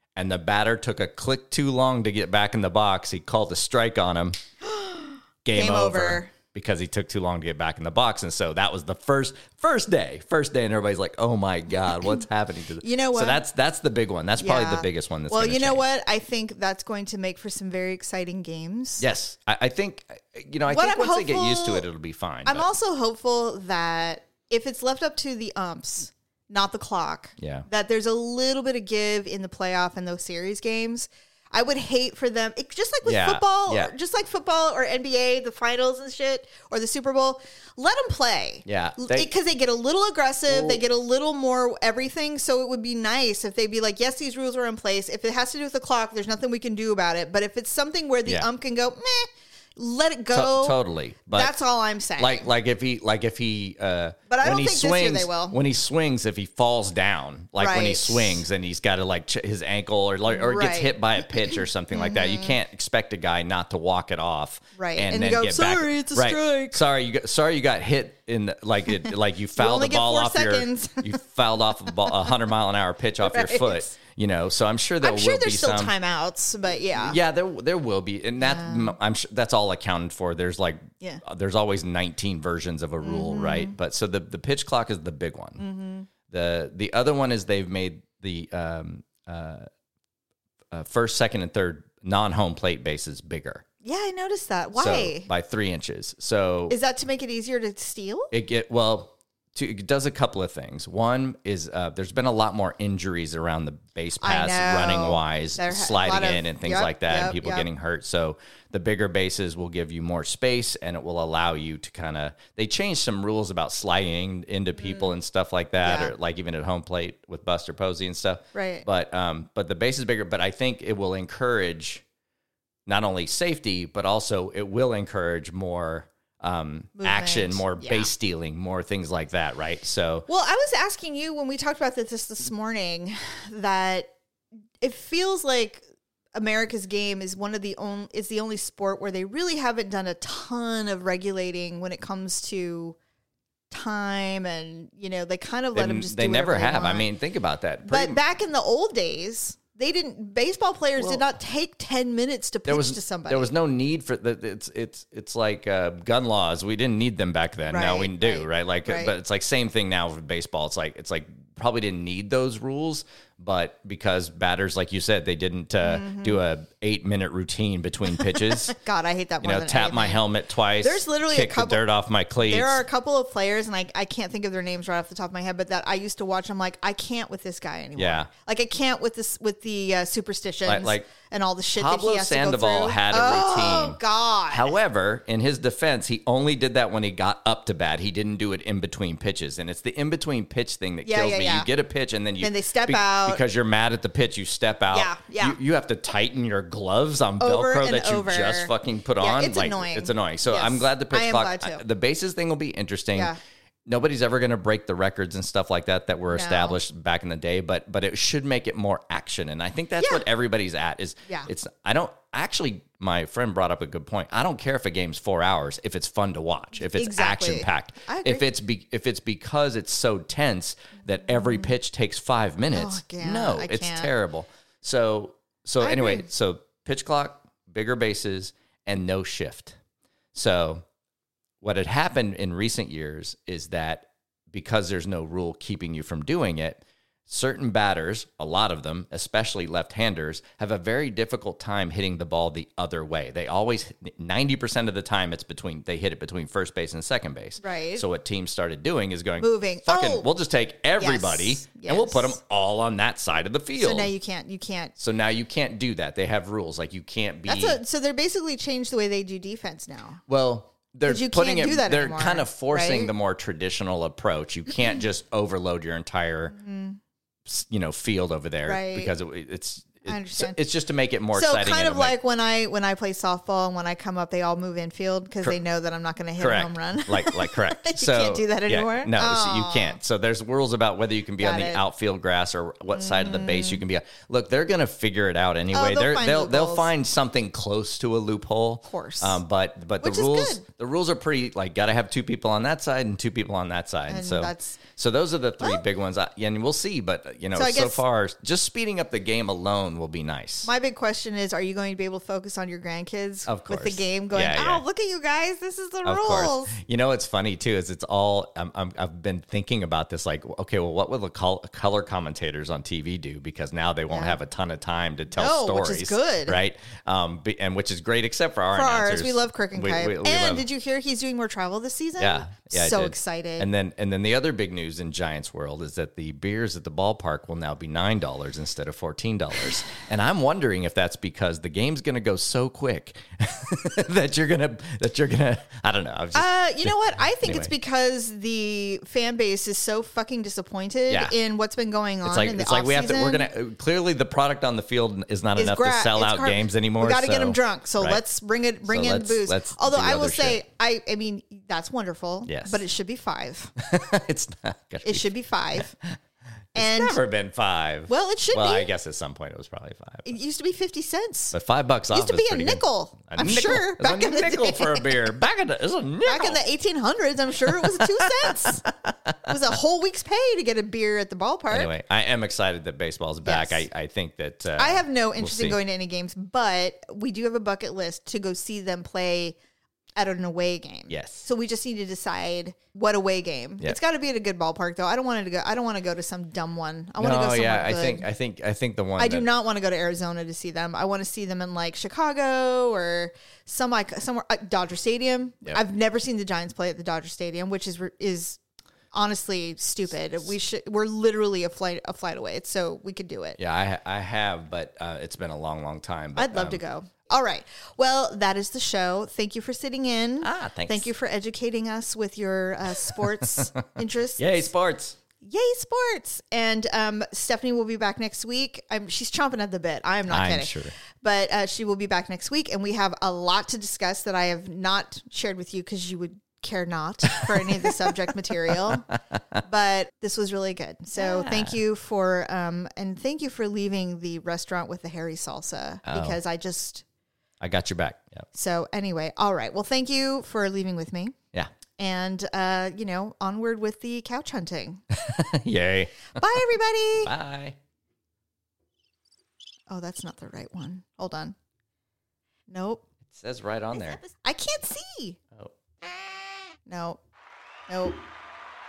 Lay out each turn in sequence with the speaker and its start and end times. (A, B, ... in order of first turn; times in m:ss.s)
0:00.2-0:04.4 A
0:04.6-0:06.3 B
0:05.4-0:15.8 A
0:12.8-0:13.4 B
0:14.4-0:19.1 B
0:19.0-0:22.7 A
0:20.7-0:21.8 B
0:22.5-0:50.8 B
0:27.4-0:27.7 A
0:33.0-0:33.9 A
0:38.7-0:39.3 A
0:40.5-0:40.8 A
0:50.3-0:51.6 A
0:51.3-0:52.5 B
0:52.2-1:15.9 A
0:54.3-0:55.6 B
0:57.6-0:58.4 B
1:00.3-1:02.6 B
1:04.8-1:06.8 B
1:09.6-1:11.2 B
1:13.2-1:14.0 B
1:15.0-1:17.2 B
1:16.9-1:25.6 A
1:18.4-1:19.0 B
1:23.0-1:23.8 B
1:25.6-1:26.1 B
1:26.3-1:29.7 A
1:30.7-1:33.6 A
1:33.8-1:35.3 B
1:34.8-1:36.8 A
1:36.7-1:38.3 B
1:38.3-2:02.0 A
1:44.2-1:47.7 B
1:54.8-1:55.1 B
1:55.8-1:56.1 B
1:58.5-1:58.8 B
2:02.9-2:10.3 A
2:07.0-2:08.1 B
2:10.3-2:14.1 B
2:14.8-2:15.8 B
2:16.4-2:23.0 B
2:23.7-2:27.1 B
2:25.7-2:28.2 A
2:27.9-2:33.5 B
2:31.0-2:31.2 A
2:32.7-2:48.8 A
2:37.7-2:39.1 B
2:45.8-2:46.4 B
2:48.1-2:50.2 B
2:49.4-2:52.8 A
2:50.8-2:51.8 B
2:52.4-3:04.7 B
2:58.0-2:58.3 A
3:00.7-3:01.1 A
3:01.7-3:04.0 A
3:04.5-3:23.3 A
3:11.0-3:11.7 B
3:12.4-3:13.4 B
3:14.9-3:15.6 B
3:17.4-3:21.8 B
3:23.9-3:49.8 A
3:26.3-3:26.8 B
3:30.0-3:30.2 B
3:36.8-3:38.4 B
3:41.2-3:41.7 B
3:42.7-3:44.1 B
3:45.8-3:46.3 B
3:50.3-3:50.8 A
3:51.6-4:14.1 A
4:07.6-4:08.0 B
4:09.4-4:10.3 B
4:11.0-4:12.4 B
4:13.8-4:14.9 B
4:15.0-4:17.8 A
4:17.5-4:20.2 B
4:20.3-4:26.6 A
4:21.1-4:23.1 B
4:26.5-4:27.0 B
4:27.5-4:32.2 A
4:28.6-4:29.1 B
4:30.1-4:30.6 B
4:31.3-4:40.0 B
4:36.4-5:00.7 A
4:41.4-4:41.8 B
4:42.9-4:43.8 B
4:45.7-4:46.9 B
4:48.9-4:49.4 B
4:50.0-4:50.6 B
4:54.1-4:54.8 B
4:57.6-4:58.0 B
5:00.6-5:06.8 B
5:03.5-5:04.8 A
5:06.0-5:20.7 A
5:14.1-5:14.4 B
5:15.3-5:16.6 B
5:18.7-5:23.7 B
5:22.2-5:37.7 A
5:36.3-5:43.5 B
5:41.1-5:41.4 A
5:42.2-5:48.2 A
5:45.6-5:53.7 B
5:48.8-5:50.6 A
5:52.5-5:52.8 A
5:53.8-5:56.2 A
5:55.0-5:55.9 B
5:56.7-6:00.3 A
5:56.8-5:57.2 B
5:58.1-5:58.9 B
6:00.2-6:01.6 B
6:01.5-6:06.6 A
6:02.1-6:05.3 B
6:06.2-6:08.9 B
6:07.8-6:09.5 A
6:09.5-6:11.9 B
6:11.7-6:15.8 A
6:13.4-6:13.9 B
6:14.8-6:19.6 B
6:20.2-6:28.3 B
6:21.1-6:21.4 A
6:27.2-6:29.5 A
6:29.2-6:38.6 B
6:39.1-6:43.6 B
6:43.6-6:46.8 A
6:46.4-6:54.7 B
6:50.4-6:51.1 A
6:53.1-6:53.6 A
6:54.4-6:55.2 A
6:55.4-7:09.1 B
7:00.3-7:00.9 A
7:07.4-7:08.1 A
7:08.9-7:09.4 A
7:09.6-7:17.0 B
7:11.2-7:11.8 A
7:16.1-7:16.4 A
7:17.6-7:18.5 A
7:18.5-7:21.4 B
7:22.0-7:25.0 B
7:25.1-7:26.6 A
7:26.4-7:27.3 B
7:27.2-7:27.8 A
7:29.9-7:31.6 B
7:32.7-7:33.0 B
7:33.2-7:34.2 A
7:33.9-7:35.4 B
7:36.9-7:37.2 B
7:37.9-7:38.2 B